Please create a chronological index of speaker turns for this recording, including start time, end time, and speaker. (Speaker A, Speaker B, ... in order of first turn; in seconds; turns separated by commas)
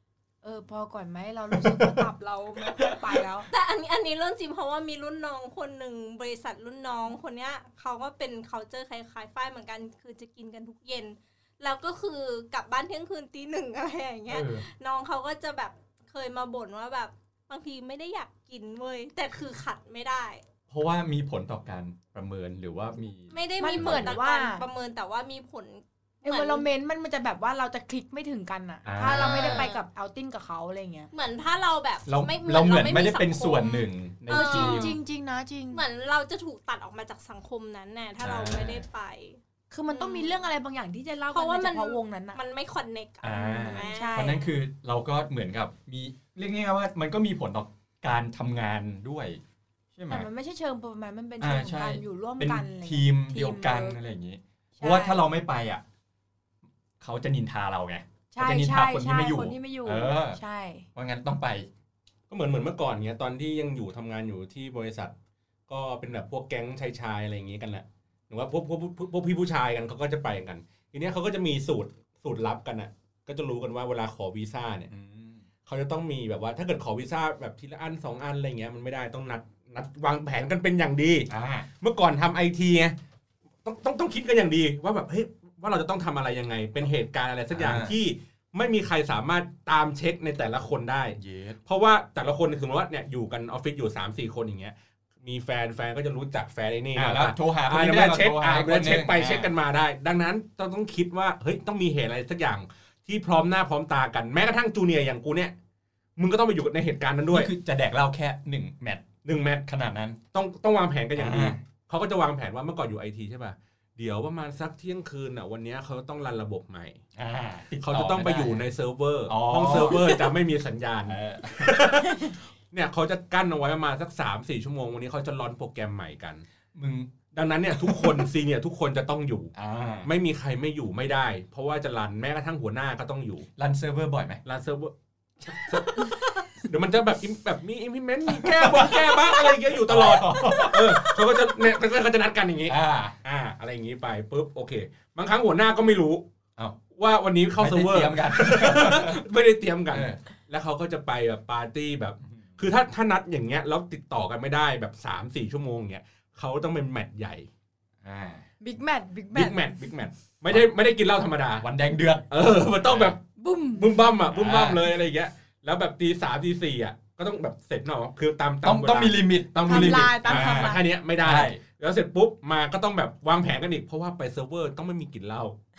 Speaker A: 0.4-3.5, Speaker B: 1.6-2.1, Speaker C: 3.5-20.4, Speaker B: 14.3-14.7, Speaker B: 20.7-24.2, Speaker C: 23.3-26.7, Speaker A: 23.6-24.6, Speaker A: 26.2-31.1, Speaker B: 28.9-29.7, Speaker C: 29.1-29.8, Speaker C: 31.1-35.0, Speaker B: 32.1-35.0, Speaker A: 34.3-35.8, Speaker C: 35.7-40.4, Speaker B: 38.2-38.8, Speaker A: 39.7-42.4, Speaker C: 41.3-44.4, Speaker B: 43.2-49.4, Speaker A: 43.3-44.5, Speaker B: 50.0-50.3, Speaker A: 50.1-54.0, Speaker B: 51.4-55.8, Speaker A: 54.8-55.2, Speaker B: 57.0-60.4, Speaker A: 58.3-60.9, Speaker B: 61.0-61.7, Speaker D: 62.3-65.1, Speaker D: 65.7-74.9, Speaker B: 74.9-75.4, Speaker D: 75.7-81.3, Speaker B: 81.3-81.7, Speaker D: 81.8-83.0, Speaker D: 83.7-105.5, Speaker B: 87.5-88.0, Speaker B: 91.2-91.6, Speaker B: 97.0-99.5, Speaker D: 106.2-107.5, Speaker B: 107.3-109.1, Speaker D: 109.2-109.7, Speaker B: 109.7-110.2, Speaker D: 110.3-117.0, Speaker B: 111.2-111.6, Speaker B: 117.2-118.7, Speaker D: 117.8-126.5, Speaker B: 119.3-120.2, Speaker B: 121.1-122.1, Speaker B: 126.7-127.2, Speaker D: 127.3-129.5, Speaker B: 127.8-128.2, Speaker B: 129.6-130.1, Speaker D: 130.0-133.5, Speaker B: 133.6-134.4, Speaker D: 134.4-146.2, Speaker B: 138.3-141.4, Speaker B: 142.7-143.2, Speaker D: 147.0-157.5, Speaker B: 147.6-149.2, Speaker B: 149.9-150.2, Speaker B: 158.0-158.5, Speaker A: 158.6-159.7, Speaker D: 159.3-161.7, Speaker B: 161.6-163.2, Speaker D: 162.3-163.2, Speaker A: 163.4-164.0, Speaker D: 163.7-175.6, Speaker B: 164.3-164.9, Speaker B: 168.6-171.6, Speaker A: 169.6-170.8